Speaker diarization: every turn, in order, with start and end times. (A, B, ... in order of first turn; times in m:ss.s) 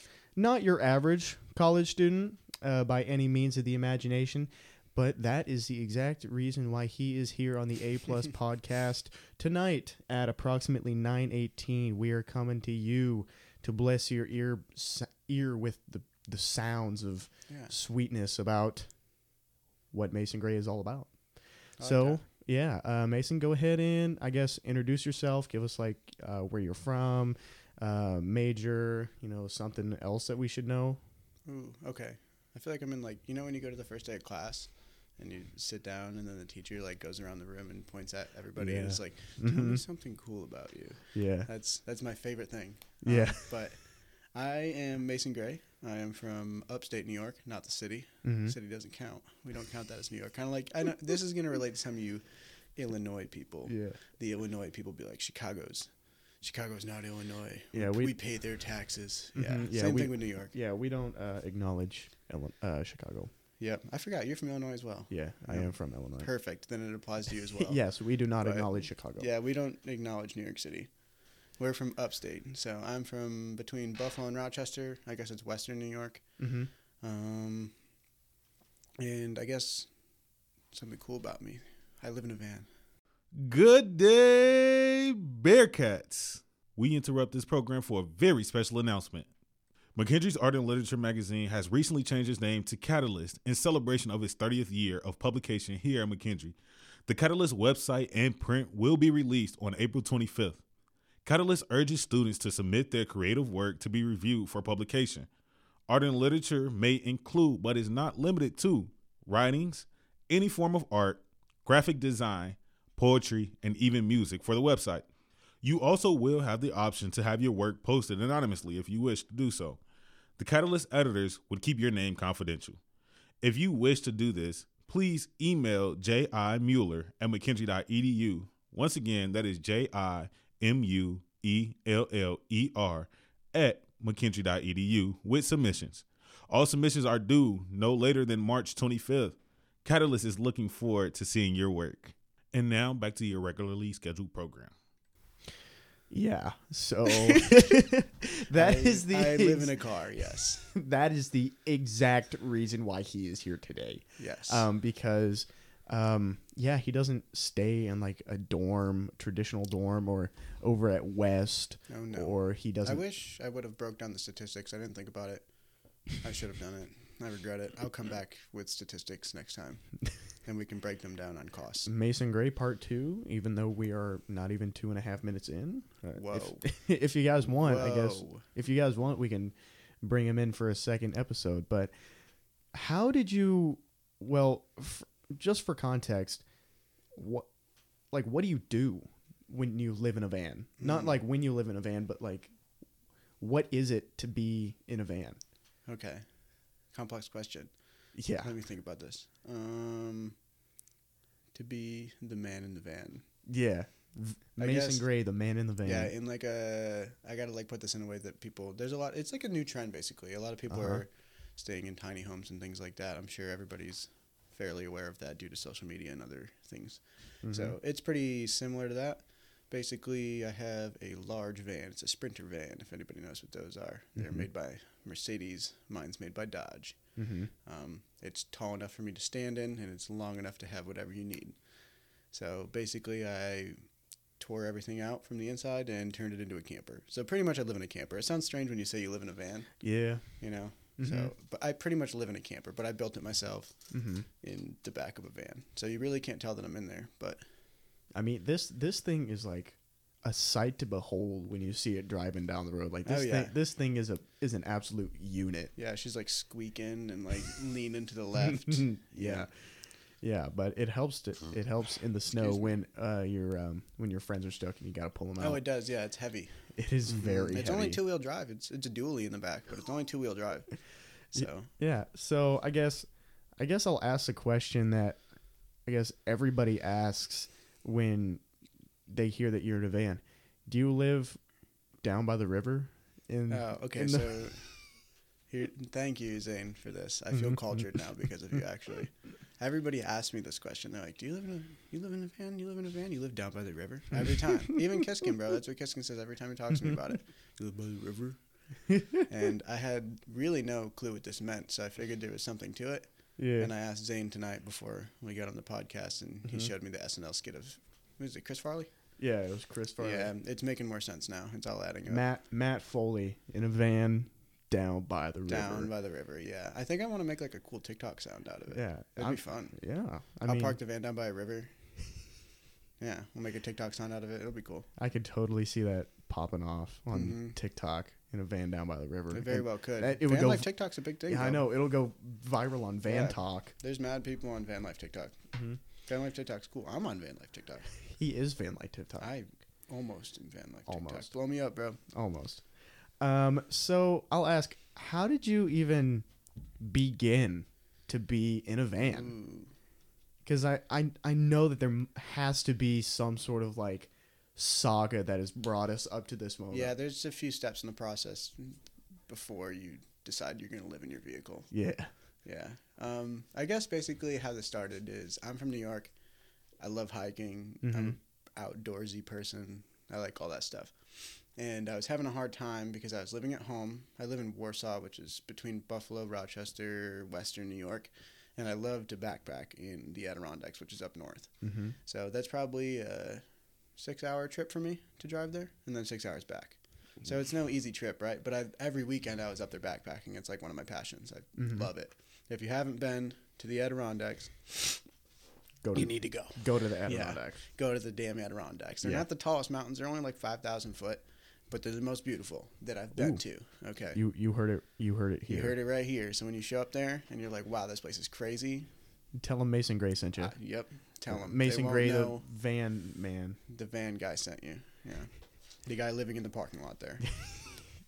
0:00.4-0:18.9 A
0:19.9-0:21.1 A
0:21.8-0:22.2 B
0:21.8-0:31.0 A
0:31.4-0:52.2 B
0:38.6-0:39.8 A
0:41.1-0:41.5 A
0:43.0-0:43.6 A
0:48.2-0:48.6 A
0:52.8-0:55.9 B
0:53.6-0:54.0 A
0:56.4-1:00.5 B
0:57.7-0:58.1 A
0:59.4-1:03.3 A
1:03.6-1:07.8 B
1:05.1-1:06.3 A
1:07.5-1:09.3 A
1:08.4-1:10.9 B
1:11.6-1:16.2 B
1:16.4-1:16.7 A
1:17.0-1:17.7 B
1:19.0-1:19.9 B
1:20.7-1:22.7 B
1:23.3-1:29.3 C
1:30.0-1:36.6 C
1:37.1-1:40.6 C
1:41.2-1:45.3 C
1:45.9-1:55.0 C
1:55.6-1:59.8 C
2:00.4-2:02.8 C
2:03.4-2:24.7 C
2:26.1-2:29.8 A
2:28.5-2:30.7 B
2:30.6-2:43.0 A
2:34.2-2:34.6 B
2:41.9-2:45.4 B
2:46.2-2:49.9 B
2:50.4-2:51.9 B
2:51.8-3:01.9 A
2:56.1-2:56.7 B
2:57.5-2:58.4 B
3:02.7-3:06.4 A
3:07.1-3:07.5 A
3:08.1-3:12.5 A
3:10.8-3:11.1 B
3:13.4-3:15.4 A
3:15.8-3:16.2 B
3:16.9-3:17.7 B
3:18.2-3:18.5 A
3:18.4-3:20.4 B
3:21.5-3:23.2 B
3:23.5-3:26.1 A
3:24.6-3:25.1 B
3:25.8-3:47.0 B
3:30.7-3:31.0 A
3:37.4-3:37.7 A
3:44.2-3:44.4 A
3:47.2-3:47.5 A
3:47.6-3:51.6 B
3:52.3-3:53.8 B
3:54.4-3:59.7 B
3:59.8-4:00.4 A
4:00.3-4:03.8 B
4:01.0-4:01.3 A
4:03.9-4:04.3 A
4:04.3-4:07.4 B
4:08.1-4:15.7 A
4:13.0-4:13.6 B
4:15.8-4:19.5 B
4:18.4-4:19.5 A
4:20.2-4:25.6 A
4:22.3-4:22.7 B
4:25.4-4:30.7 B
4:26.7-4:28.0 A
4:31.3-4:31.7 B
4:31.4-4:33.1 A
4:33.6-4:35.2 A
4:35.8-4:38.4 A
4:39.1-4:41.4 A
4:42.0-4:44.6 A
4:43.5-4:44.8 B
4:45.5-4:58.4 B
4:58.9-4:59.2 A
4:59.2-5:08.9 B
5:03.4-5:03.7 A
5:09.2-5:10.3 A
5:10.0-5:12.2 B
5:12.1-5:15.9 A
5:15.5-5:19.8 B
5:18.7-5:20.8 A
5:20.4-5:21.7 B
5:23.0-5:24.9 B
5:25.0-5:30.7 A
5:27.1-5:27.6 B
5:29.3-5:31.6 B
5:31.3-5:33.7 A
5:33.1-5:35.4 B
5:35.5-5:35.8 A
5:36.0-5:37.9 B
5:38.1-5:39.3 A
5:39.2-5:42.0 B
5:40.9-5:41.3 A
5:42.1-5:42.6 A
5:43.2-5:46.2 A
5:46.8-5:49.4 A
5:49.0-5:49.7 B
5:50.4-5:56.9 A
5:56.7-6:01.7 B
6:01.7-6:02.1 A
6:02.4-6:06.1 B
6:06.8-6:23.4 B
6:07.8-6:08.2 A
6:21.6-6:21.9 A
6:24.0-6:35.0 B
6:31.6-6:31.9 A
6:35.8-6:37.6 A
6:35.9-6:44.2 B
6:44.1-6:45.8 A
6:45.5-6:48.9 B
6:49.4-6:50.6 A
6:50.4-6:52.4 B
6:51.3-6:53.6 A
6:53.7-6:55.3 B
6:55.8-6:57.3 B